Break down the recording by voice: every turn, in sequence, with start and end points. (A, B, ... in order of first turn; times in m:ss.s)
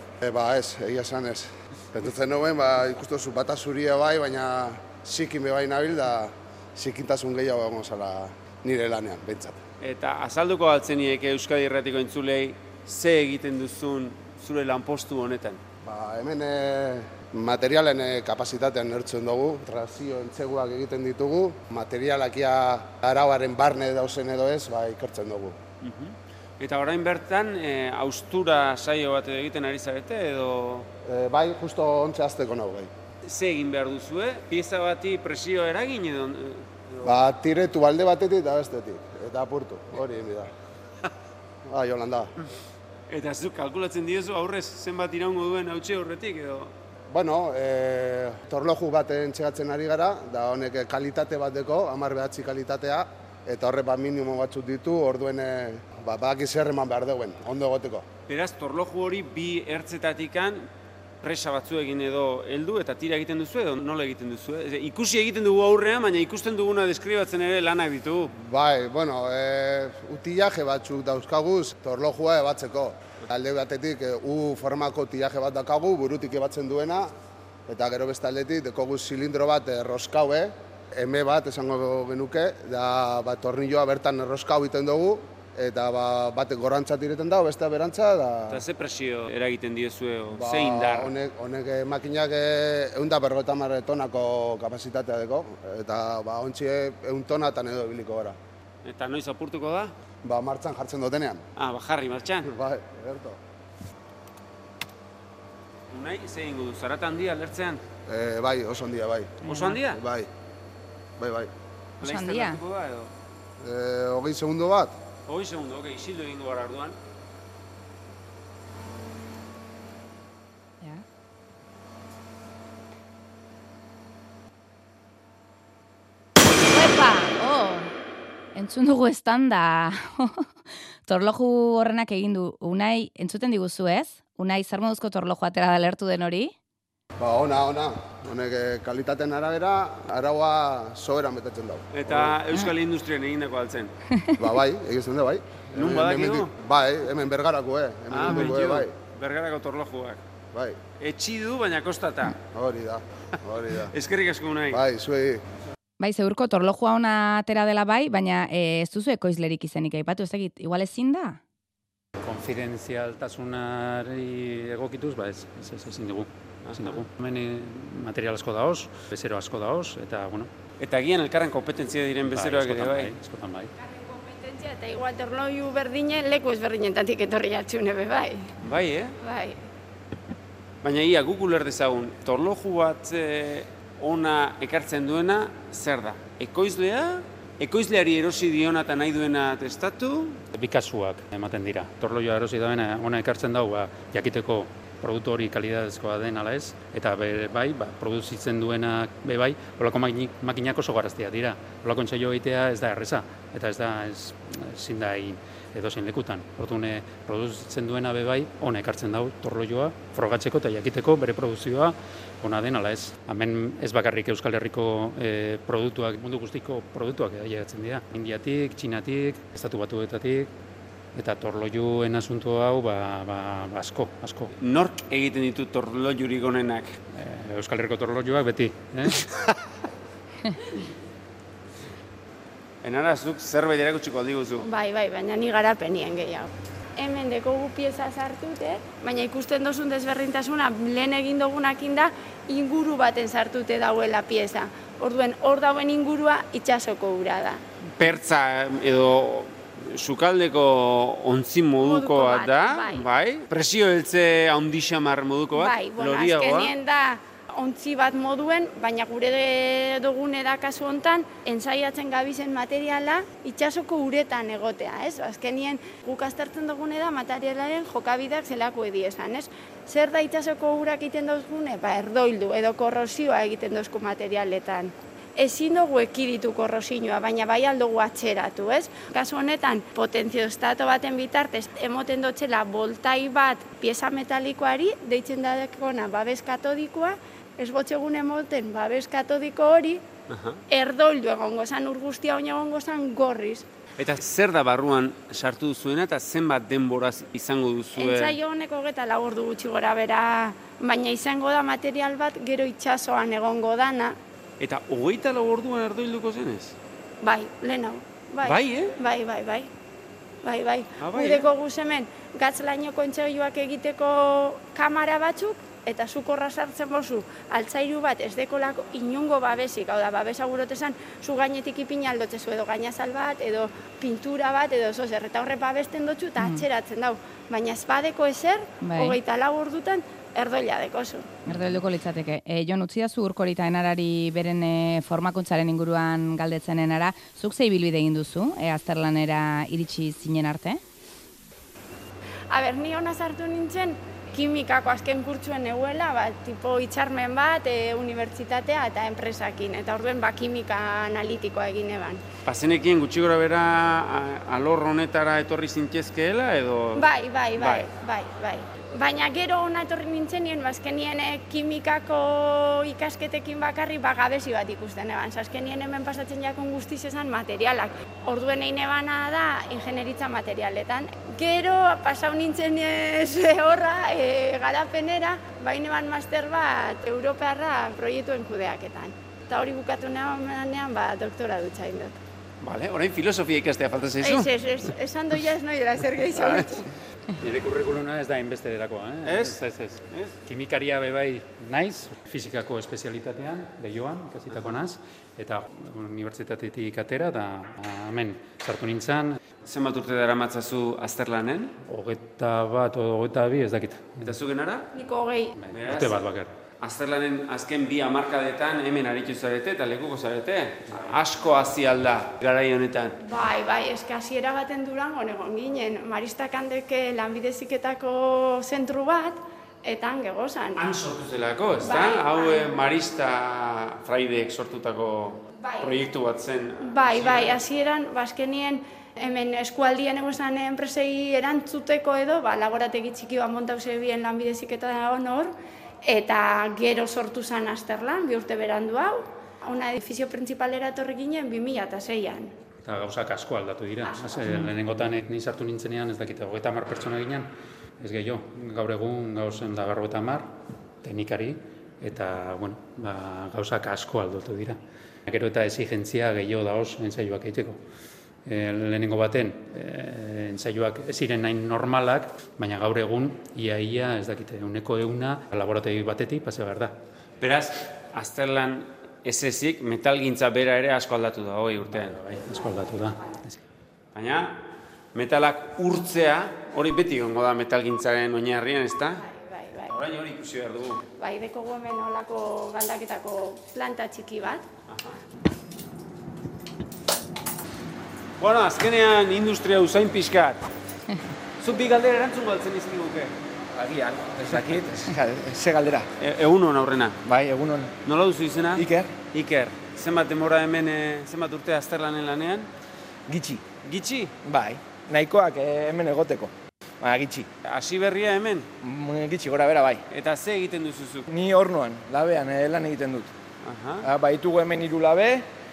0:00.2-0:09.6 A
0:09.8-0:15.6 B
0:15.8-0:25.6 A
0:25.8-0:30.9 B
0:31.0-0:32.9 A
0:33.2-0:37.2 B
0:37.0-0:40.5 A
0:41.6-0:42.3 A
0:43.1-0:46.7 B
0:47.1-0:58.0 A
0:58.3-1:00.6 B
1:01.2-1:08.3 B
1:08.4-1:17.1 A
1:17.7-1:28.6 A
1:28.5-1:31.1 B
1:30.3-1:38.4 A
1:38.8-1:39.9 B
1:40.2-1:41.4 A
1:41.6-1:42.5 B
1:42.4-1:43.4 A
1:45.9-1:47.8 B
1:48.1-1:50.3 A
1:49.4-1:50.0 B
1:51.2-1:51.5 A
1:52.0-1:53.1 B
1:52.0-1:52.6 C
1:53.6-1:54.9 A
1:55.3-1:57.0 B
2:06.7-2:07.9 C
2:08.5-2:10.5 C
2:11.0-2:16.5 C
2:17.2-2:22.4 A
2:21.9-2:23.9 B
2:24.4-2:28.9 A
2:25.7-2:26.5 B
2:28.1-2:30.2 B
2:30.5-2:30.8 A
2:31.0-2:32.4 B
2:32.5-2:33.9 A
2:33.8-2:34.8 B
2:34.7-2:35.4 A
2:36.0-2:41.4 C
2:42.2-2:50.5 D
2:46.6-2:47.0 B
2:50.8-2:53.1 B
2:52.3-2:53.7 D
2:53.8-2:58.5 E
2:58.6-2:59.1 B
2:59.2-2:59.6 E
3:00.8-3:10.4 B
3:10.5-3:40.5 D
3:41.1-3:44.5 D
3:44.6-3:47.0 B
3:47.1-3:49.2 D
3:52.8-3:54.7 B
3:54.6-4:07.6 E
4:08.0-4:16.7 B
4:11.8-4:13.1 E
4:15.5-4:50.0 E
4:50.3-4:50.6 B
4:50.7-4:53.7 E
4:54.0-4:58.4 B
4:57.9-5:04.2 E
5:04.6-5:06.7 B
5:07.2-5:09.7 E
5:08.4-5:09.0 B
5:10.4-5:31.3 E
5:11.0-5:11.5 B
5:26.4-5:26.6 C
5:28.8-5:29.2 C
5:31.4-5:40.8 C
5:42.5-5:52.2 E
5:52.4-5:57.9 B
5:56.9-6:22.2 E
6:22.6-6:24.5 B
6:24.2-6:26.9 E
6:26.3-6:26.8 B
6:27.4-6:39.4 D
6:29.2-6:29.6 B
6:39.6-6:41.7 B
6:41.9-6:44.3 D
6:44.2-6:44.9 B
6:44.9-6:45.6 E
6:45.6-6:46.5 D
6:45.7-6:46.2 B
6:46.8-6:53.2 B
6:50.9-6:51.2 D
6:53.2-7:00.8 E
7:00.8-7:07.6 B
7:01.8-7:02.8 E
7:05.6-7:05.9 E
7:06.8-7:22.5 E
7:22.8-7:27.5 D
7:24.0-7:24.5 E
7:28.0-7:30.5 D
7:31.0-7:37.8 D
7:38.4-7:46.9 D
7:47.4-7:52.2 B
7:51.9-7:53.6 D
7:54.1-7:59.2 B
7:59.2-7:59.9 E
7:59.9-8:01.0 B
8:01.2-8:04.6 E
8:04.9-8:05.2 B
8:08.4-8:10.7 B
8:11.6-8:13.3 B
8:13.7-8:16.1 F
8:16.2-8:17.2 B
8:17.2-8:17.9 F
8:18.0-8:22.7 B
8:18.8-8:19.1 F
8:23.3-8:23.6 F
8:23.8-8:24.3 B
8:24.4-8:27.5 F
8:27.6-8:28.7 B
8:28.8-8:30.0 F
8:30.1-8:31.3 B
8:31.3-8:33.3 F
8:33.6-8:34.1 B
8:34.0-8:35.5 F